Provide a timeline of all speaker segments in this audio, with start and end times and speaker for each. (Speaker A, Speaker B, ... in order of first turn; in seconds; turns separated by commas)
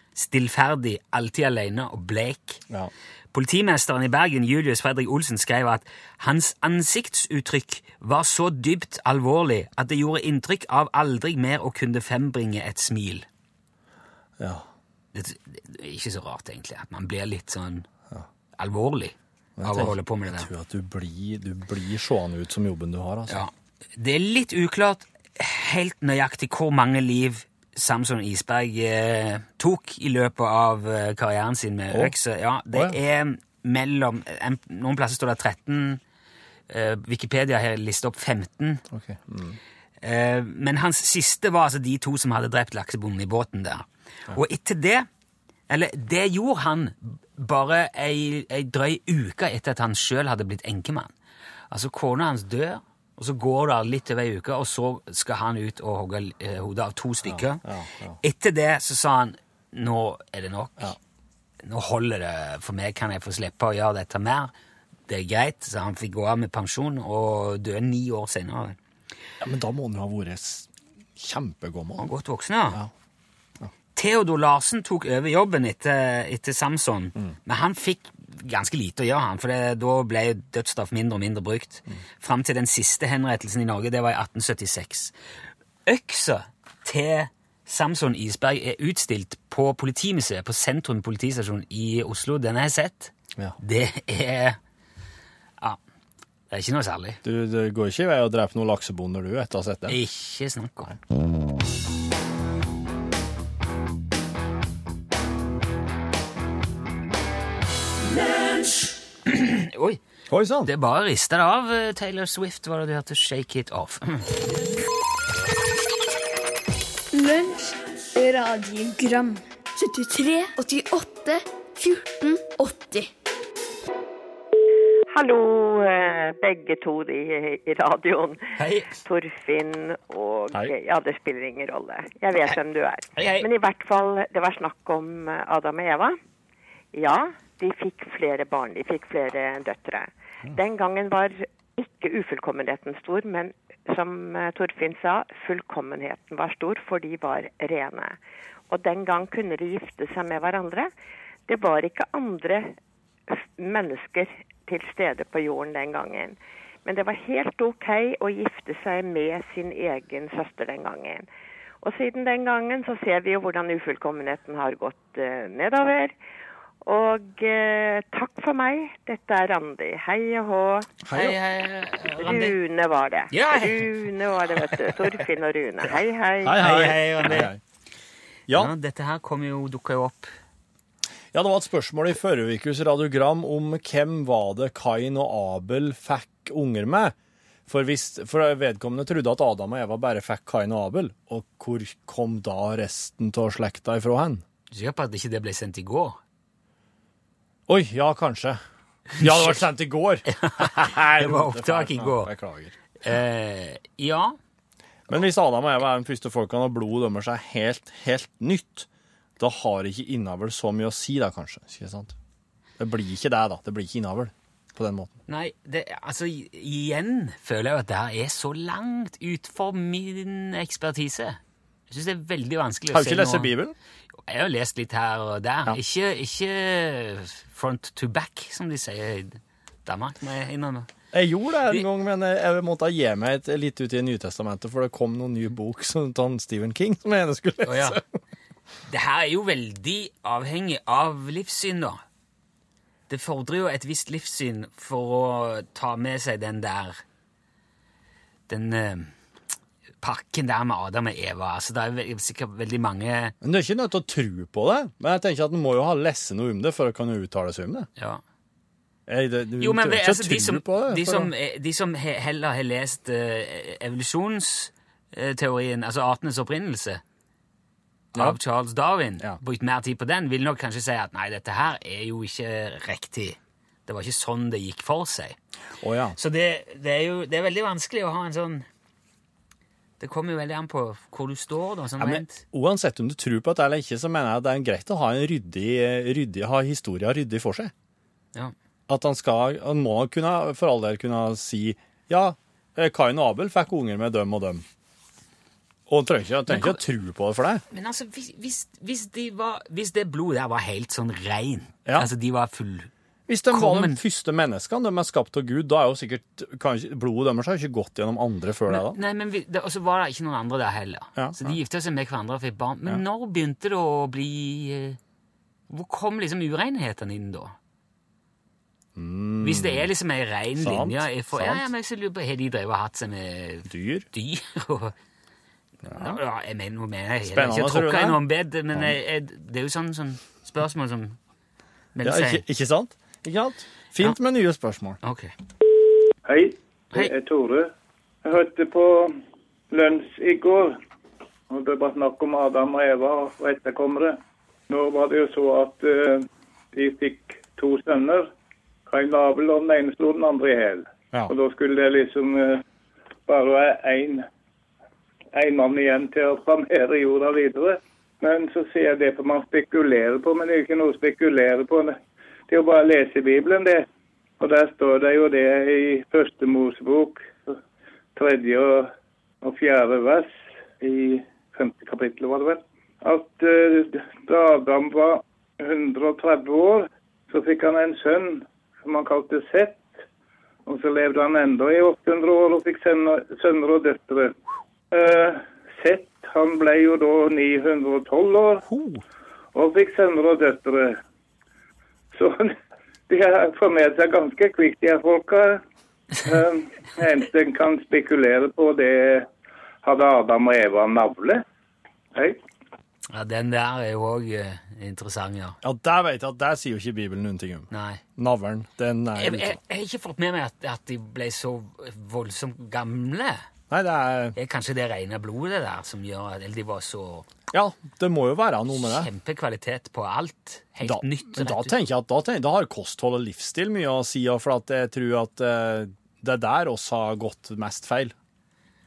Speaker A: 0.1-2.6, Speaker A: 3.3-13.3, Speaker B: 14.4-14.6, Speaker A: 15.1-17.9, Speaker A: 18.6-20.5, Speaker B: 19.6-23.4, Speaker A: 23.3-36.0, Speaker B: 32.7-33.0, Speaker A: 36.7-38.8, Speaker B: 38.9-39.6, Speaker A: 40.0-45.1, Speaker A: 45.7-51.1, Speaker A: 51.7-57.6, Speaker B: 57.2-58.2, Speaker A: 58.2-61.0, Speaker A: 61.6-64.5, Speaker A: 65.1-68.8, Speaker B: 69.4-72.1, Speaker A: 72.0-72.8, Speaker A: 74.0-85.1, Speaker A: 85.8-94.6, Speaker A: 96.5-97.2, Speaker B: 97.2-100.0, Speaker A: 99.9-100.9, Speaker A: 109.3-110.0, Speaker B: 110.3-110.7, Speaker A: 110.7-114.3, Speaker C: 117.1-123.1, Speaker D: 125.1-128.4, Speaker A: 128.6-128.9, Speaker D: 129.0-136.2, Speaker A: 133.2-133.5, Speaker D: 136.9-148.2, Speaker D: 148.7-150.9, Speaker D: 151.5-152.7, Speaker D: 153.3-161.3, Speaker D: 161.8-166.2, Speaker D: 166.8-170.9, Speaker B: 171.0-171.4, Speaker A: 171.1-172.6, Speaker D: 172.2-176.7, Speaker A: 173.3-173.9, Speaker B: 176.4-177.6, Speaker A: 176.5-177.5, Speaker A: 178.5-180.3, Speaker B: 181.3-187.2, Speaker B: 187.7-194.4, Speaker A: 194.7-196.2, Speaker B: 197.7-198.6, Speaker B: 199.2-202.8, Speaker A: 199.2-199.6, Speaker A: 200.3-202.3, Speaker A: 203.0-204.4, Speaker B: 205.1-208.9, Speaker B: 209.4-212.1, Speaker B: 212.8-215.1, Speaker A: 215.3-221.4, Speaker A: 221.9-223.5, Speaker B: 222.9-223.8, Speaker A: 224.3-230.9, Speaker B: 231.1-238.0, Speaker A: 237.6-238.0, Speaker A: 238.9-242.0, Speaker A: 243.1-247.0, Speaker A: 248.5-249.1, Speaker A: 250.0-253.3, Speaker B: 253.4-257.9, Speaker A: 258.0-258.2, Speaker B: 259.1-261.3, Speaker A: 259.6-267.0, Speaker A: 268.1-275.4, Speaker B: 275.8-276.2, Speaker A: 276.1-278.7, Speaker A: 280.0-282.4, Speaker B: 282.0-287.7, Speaker B: 288.9-294.6, Speaker B: 295.9-297.6, Speaker A: 296.5-296.8, Speaker A: 297.7-302.9, Speaker B: 303.3-309.0, Speaker A: 303.5-304.0, Speaker A: 308.7-315.0, Speaker B: 311.2-311.6, Speaker A: 315.7-317.6, Speaker B: 319.0-319.9, Speaker A: 319.4-324.9, Speaker B: 320.6-321.7, Speaker B: 323.7-324.1, Speaker B: 325.9-326.2, Speaker A: 325.9-331.2, Speaker B: 327.2-328.2, Speaker A: 331.9-332.4, Speaker B: 332.0-335.0, Speaker A: 335.0-335.3, Speaker E: 336.3-337.7, Speaker E: 338.2-339.2, Speaker E: 339.7-340.8, Speaker E: 341.5-348.3, Speaker E: 348.9-352.6, Speaker E: 353.3-354.3, Speaker E: 355.3-362.0, Speaker E: 362.5-363.9, Speaker E: 364.4-367.5, Speaker E: 368.2-368.9, Speaker E: 369.4-379.9, Speaker E: 380.7-384.3, Speaker E: 384.9-388.6, Speaker B: 388.7-389.0, Speaker E: 389.5-391.0, Speaker E: 392.1-392.6, Speaker E: 393.1-395.6, Speaker E: 396.2-399.3, Speaker E: 399.8-401.4, Speaker E: 402.1-402.4, Speaker A: 403.1-405.6, Speaker B: 405.6-409.6, Speaker A: 407.7-408.0, Speaker A: 409.1-413.4, Speaker B: 413.7-414.4, Speaker A: 414.4-417.3, Speaker B: 417.5-419.1, Speaker A: 418.7-421.8, Speaker B: 420.8-428.1